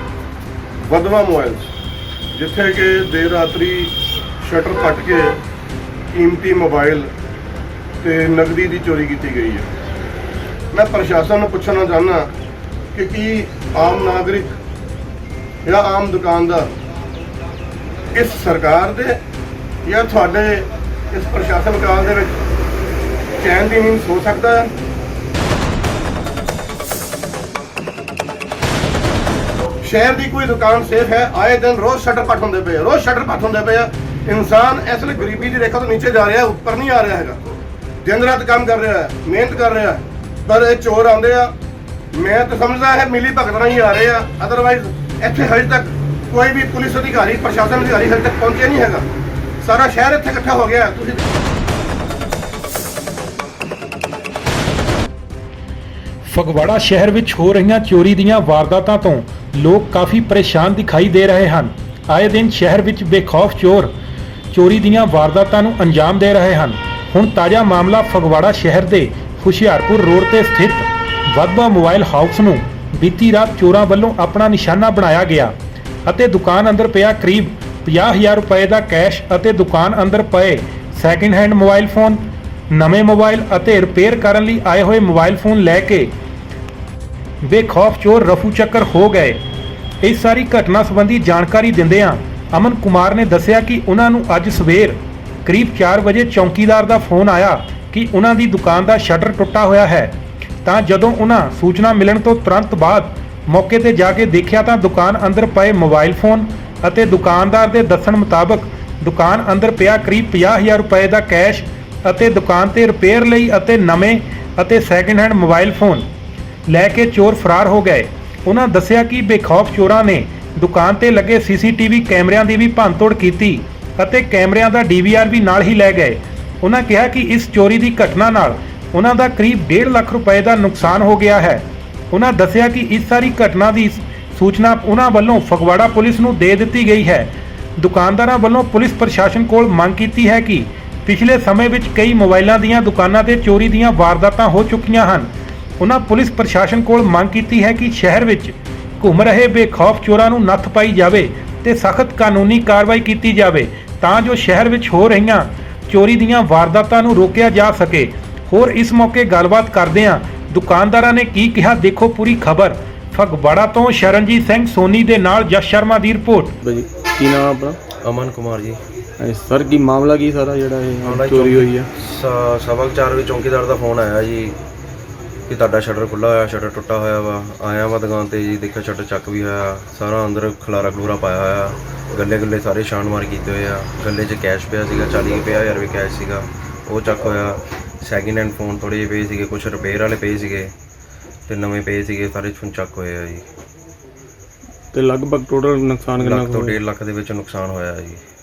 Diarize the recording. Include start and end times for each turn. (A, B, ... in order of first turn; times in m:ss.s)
0:00.8-0:01.7 A
0:02.3-0:05.4 A
0:06.1-0:07.1 A
0:08.0-0:09.7 A
0:10.7-0:12.3 A
0:12.9-0:14.5 A
0:15.7-0:16.7 A
0:18.1-0:19.2 A
0:19.8-0:22.4 A
0:23.4-0:24.7 A
0:29.8-0:37.4 A
0:38.0-0:41.5 A
0:42.1-0:49.0 A
0:49.6-0:51.3 A
0:56.3-1:03.9 B
1:04.5-1:15.5 B
1:16.1-1:26.1 B
1:27.4-1:29.4 B
1:30.0-1:56.1 B
1:56.7-2:25.3 B
2:25.8-2:46.6 B
2:46.6-2:47.8 C
2:48.0-2:48.8 D
2:49.2-2:51.9 C
2:51.0-2:54.6 D
2:55.5-3:10.7 D
3:11.5-3:13.4 D
3:14.9-3:16.8 C
3:16.2-3:18.2 D